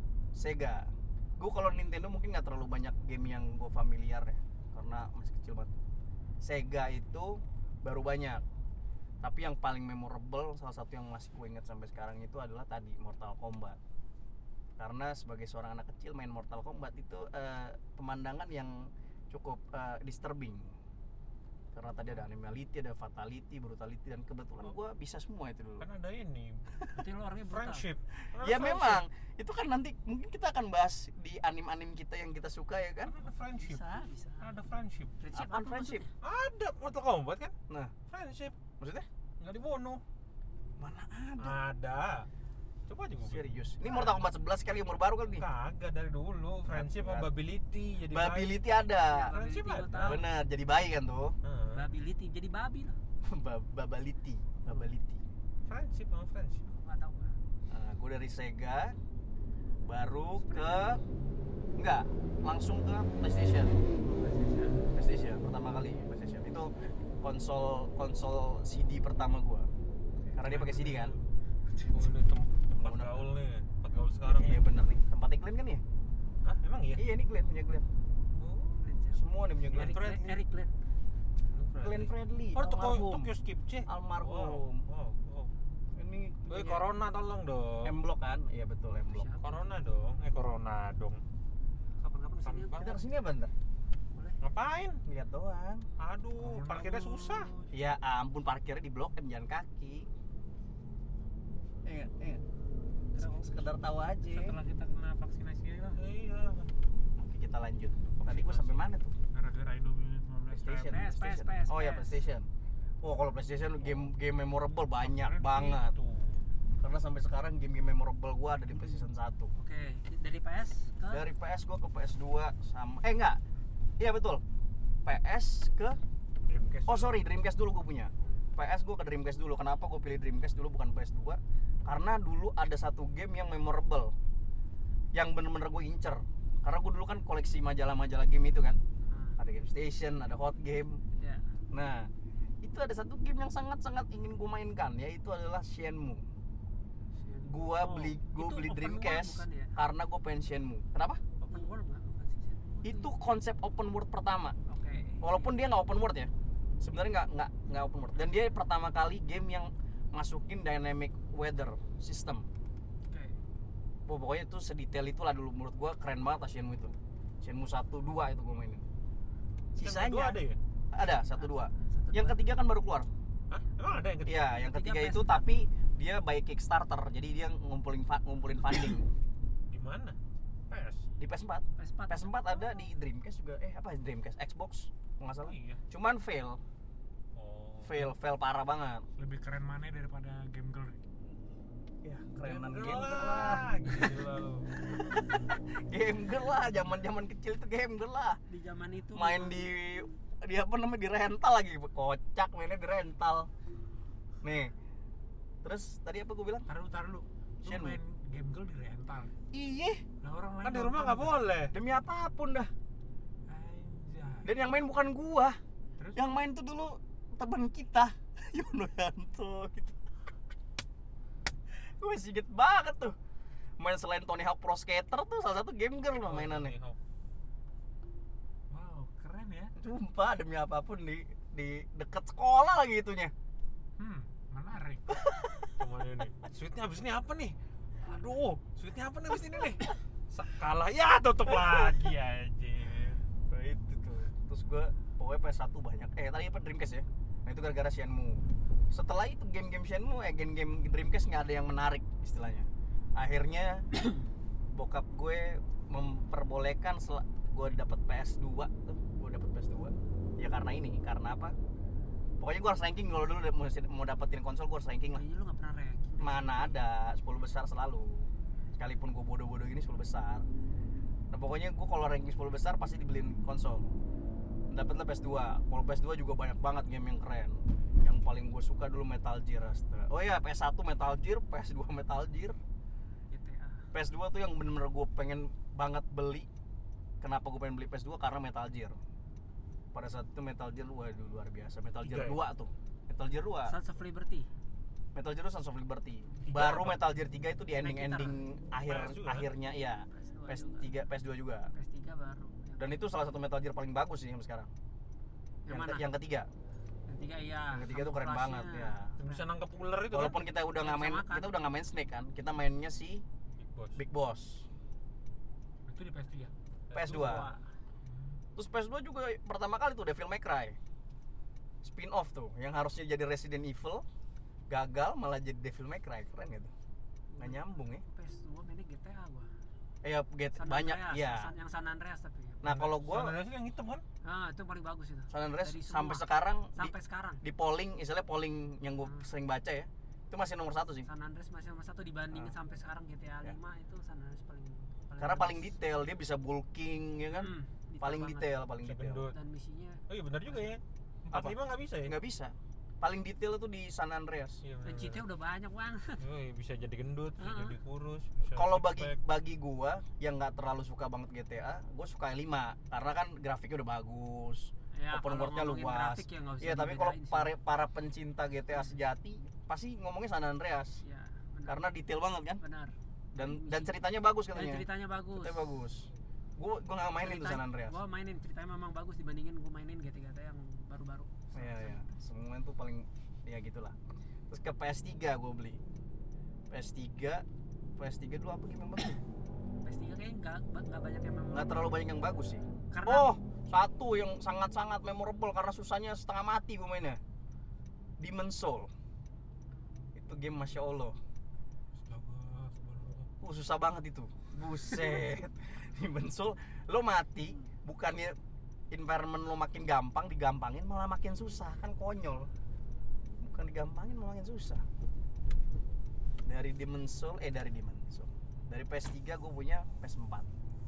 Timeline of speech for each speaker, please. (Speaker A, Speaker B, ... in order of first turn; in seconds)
Speaker A: 0.3-5.7, 6.4-8.4, 9.2-13.8, 14.8-20.7, 21.7-25.9, 28.4-33.1, 35.3-36.0, 37.7-37.9, 38.8-39.1, 40.8-41.6, 43.2-45.5, 46.7-47.3, 48.1-49.3, 50.0-51.3, 53.2-55.2, 57.7-59.0, 59.8-61.0, 61.8-63.8, 64.9-69.7, 70.3-71.2, 72.8-73.3, 74.3-75.8, 77.0-77.9, 79.1-80.0, 81.8-83.3, 83.9-84.8, 85.9-86.9, 87.8-89.3, 92.8-93.5, 95.0-95.9, 97.7-100.1, 101.8-102.4, 103.2-104.6, 107.2-109.1, 110.5-112.5, 113.0-116.0, 116.8-119.5, 121.1-123.4, 124.0-124.4, 125.0-126.0, 126.9-134.1, 135.1-138.8, 139.4-141.0, 141.7-142.1, 142.6-146.2, 147.5-151.2, 152.8-154.5, 155.2-162.5, 164.1-168.8, 169.7-173.1, 174.2-179.1, 181.2-186.6, 187.8-189.1, 192.0-194.1, 194.9-198.4, 199.1-203.5, 204.4-204.7, 205.6-206.7, 207.6-208.0, 209.5-210.0, 211.7-212.7, 214.4-215.6, 216.1-220.0, 221.7-223.2, 223.8-226.7, 229.8-233.3, 241.5-241.8, 243.5-253.9, 254.7-261.5, 262.4-265.2, 266.2-270.4, 271.3-273.9, 274.7-282.6, 283.9-286.5, 287.2-289.0, 289.9-293.7, 295.1-301.7, 302.8-304.7, 305.7-306.5, 307.7-309.1, 310.1-313.2, 313.9-314.6, 316.9-317.5, 318.6-320.8, 321.8-324.0, 324.7-326.7, 327.4-328.0, 330.0-331.5, 332.6-333.4, 335.3-341.1, 345.2-349.3, 351.3-354.6, 358.5-371.0, 371.6-372.6, 373.3-378.0, 381.5-383.9, 384.5-385.8, 386.7-387.4, 388.0-389.2, 391.5-397.2, 398.2-398.9, 400.1-401.2, 403.4-408.4, 408.9-412.5, 413.4-414.8, 416.4-420.5
Speaker B: 25.8-29.0, 33.0-33.8, 34.4-35.1, 36.2-37.5, 38.1-38.5, 39.4-40.0, 41.4-42.3, 42.9-43.5, 45.3-48.6, 49.3-50.2, 51.4-51.8, 55.7-56.6, 70.5-71.2, 71.9-74.6, 76.4-77.0, 78.3-78.8, 79.7-80.4, 81.5-85.5, 86.5-88.0, 89.4-91.2, 92.4-93.0, 94.4-95.0, 96.0-97.5, 106.0-106.7, 108.2-108.7, 113.8-114.1, 115.0-116.4, 126.5-127.2, 169.8-170.6, 173.5-174.5, 179.7-180.2, 180.7-181.1, 185.4-185.8, 187.3-188.1, 192.4-194.7, 210.6-211.7, 226.2-227.0, 235.7-243.2, 292.0-292.4, 296.5-297.0, 298.9-299.5, 309.2-310.5, 313.6-314.0, 316.9-317.4, 332.6-334.0, 348.8-349.4, 350.1-352.1, 354.6-355.2, 356.2-359.1, 401.9-403.3
Speaker C: 26.9-27.9, 33.6-34.5, 35.2-36.1, 49.0-50.2, 51.7-53.0, 54.6-54.9, 56.7-57.3, 60.4-61.0, 64.0-64.8, 78.8-80.7, 89.1-89.8, 92.0-92.8, 94.1-94.4, 103.1-103.7, 110.8-112.2, 119.5-121.2, 139.1-139.4, 141.2-141.4, 147.2-149.7, 151.4-153.1, 154.7-155.5, 163.1-163.3, 171.4-172.4, 174.5-175.4, 181.8-182.8, 198.5-199.6, 265.1-266.8, 283.3-283.9, 293.6-294.5, 297.8-298.4, 300.1-300.9, 301.7-303.0, 305.6-306.1, 307.1-309.6, 310.7-311.6, 317.0-317.6, 327.3-329.5, 330.6-332.6, 334.2-337.4, 341.0-345.7, 347.3-348.6, 349.3-350.7, 354.8-356.2, 357.4-357.8, 364.9-367.5, 371.0-371.9, 372.6-373.9, 374.5-375.6, 377.2-382.1, 389.8-392.0, 392.9-393.3
Speaker D: 96.4-97.7, 104.2-106.0, 108.3-108.8, 109.3-111.0, 189.2-191.0, 206.7-209.3, 210.2-211.5, 213.5-214.5, 216.0-216.2, 228.7-229.7, 234.0-235.2, 315.9-316.5, 318.0-318.4